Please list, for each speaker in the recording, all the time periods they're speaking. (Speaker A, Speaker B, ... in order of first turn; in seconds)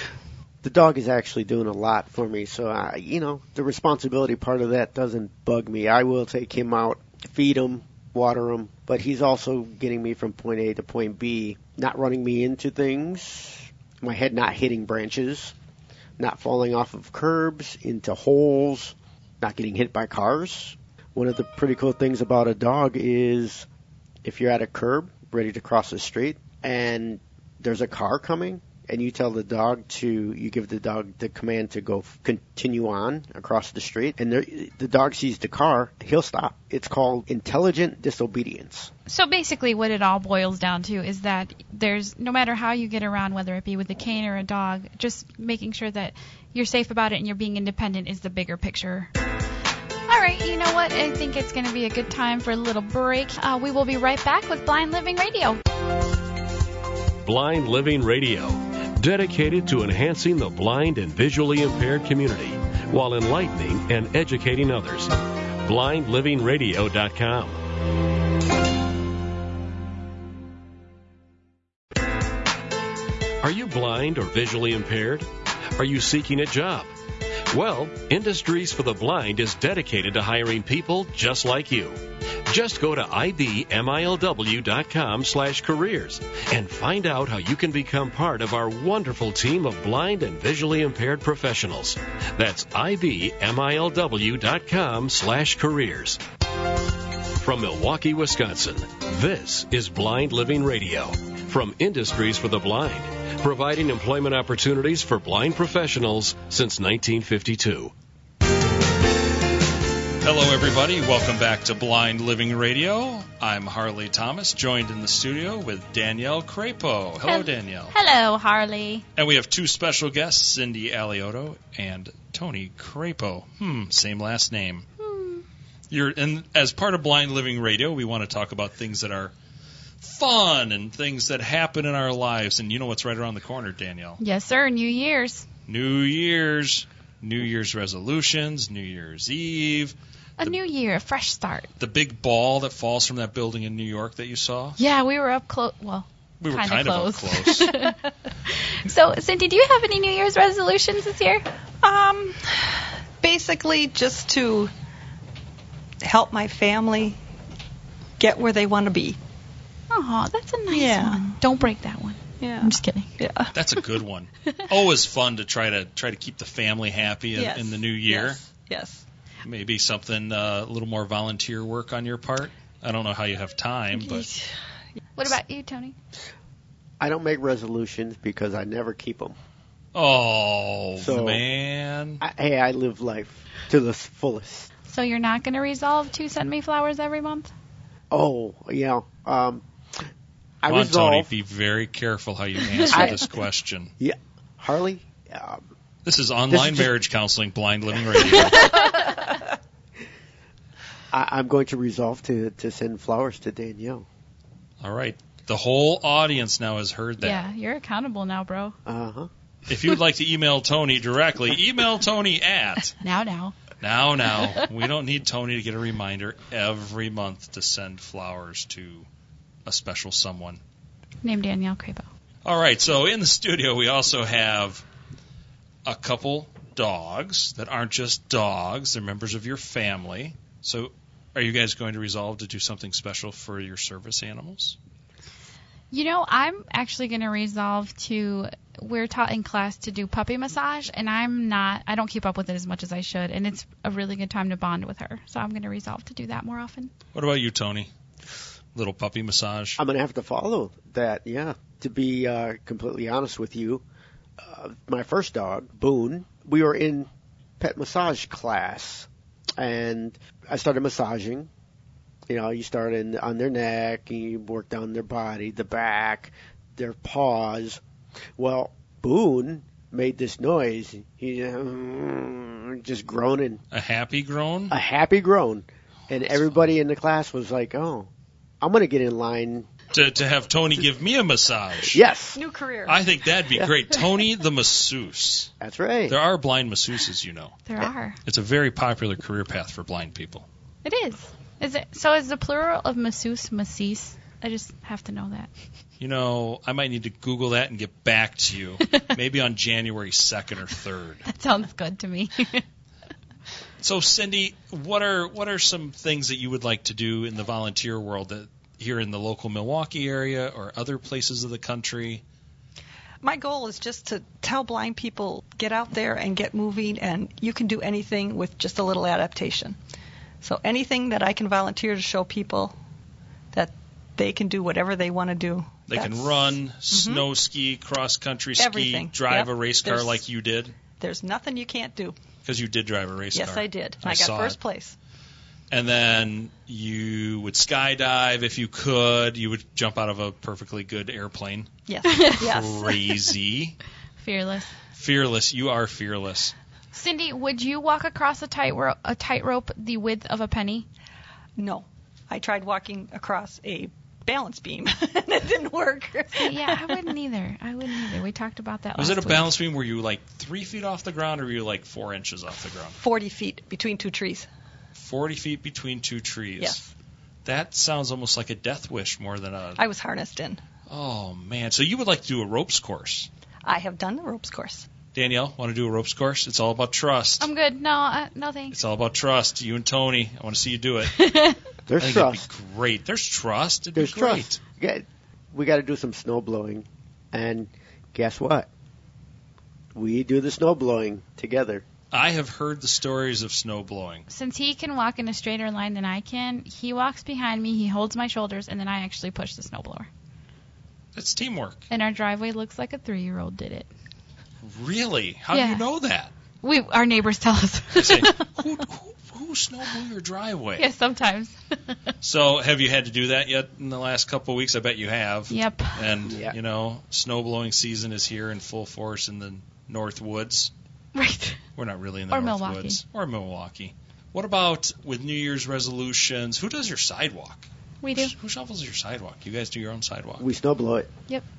Speaker A: 0.6-15.5, 16.2-23.7, 24.2-38.9, 177.0-179.4, 181.0-181.4, 182.2-184.7, 188.1-189.6, 190.6-191.3, 192.9-193.2, 194.0-195.6, 196.5-196.9, 201.1-204.1, 208.9-209.3, 249.8-253.8, 254.4-257.1, 257.6-261.5, 262.3-267.8, 268.4-273.6, 274.7-279.7, 281.9-282.4, 285.6-286.2, 381.9-382.4, 383.9-388.7, 389.9-391.8, 416.3-416.6, 430.4-431.1
Speaker B: 39.1-49.1, 50.1-55.6, 117.2-119.0, 125.0-125.4, 134.2-135.5, 140.4-141.7, 144.8-148.0, 148.5-151.4, 159.9-163.1, 175.2-175.9, 184.9-187.5, 207.2-208.8, 213.0-213.6, 221.2-222.1, 235.9-246.9, 287.7-288.2, 290.8-295.5, 301.3-302.6, 342.1-342.4, 344.2-344.7, 346.9-350.9, 356.3-359.5, 377.4-378.8, 381.2-381.6, 394.3-400.1, 401.9-403.9, 405.5-405.9, 406.6-408.5, 410.8-411.6, 415.5-416.3, 421.1-421.6, 422.3-423.0, 428.0-428.3
Speaker C: 57.3-65.1, 65.7-67.6, 73.4-75.3, 75.8-76.9, 77.5-81.9, 82.5-96.2, 97.4-107.9
Speaker D: 110.2-118.0, 119.2-124.9, 125.9-129.3, 130.0-134.2, 135.7-140.6, 141.8-144.8, 146.4-147.7, 163.5-168.4, 169.4-174.3, 179.9-182.2, 190.7-193.9, 196.1-198.9, 204.8-207.5, 209.7-213.0, 213.8-219.1, 219.7-220.6, 222.4-224.8, 225.8-234.8, 247.1-247.9, 248.7-249.8, 273.7-274.8, 276.1-276.8, 279.9-282.0, 282.9-285.5, 286.1-287.6, 288.2-290.5, 296.0-301.3, 303.8-312.2, 325.9-330.8, 332.4-334.6, 335.7-341.7, 342.4-343.8, 344.9-346.6, 359.0-363.0, 364.9-366.8, 367.4-369.8, 370.9-373.3, 375.1-377.5, 378.7-381.3, 382.0-384.6, 392.1-394.3, 401.1-401.9, 404.6-406.3, 407.9-410.9, 412.2-420.7, 421.8-430.5
Speaker E: 151.8-154.7, 156.0-157.2, 158.2-159.2, 160.7-161.3, 162.4-163.5, 167.3-169.0, 173.9-174.5, 282.4-283.0, 313.2-319.8, 320.4-322.8, 323.5-327.2, 328.6-330.2, 331.0-332.2, 333.3-335.0, 341.9-342.9, 351.6-357.0, 363.0-364.5, 366.6-366.9, 369.8-370.6, 373.6-374.9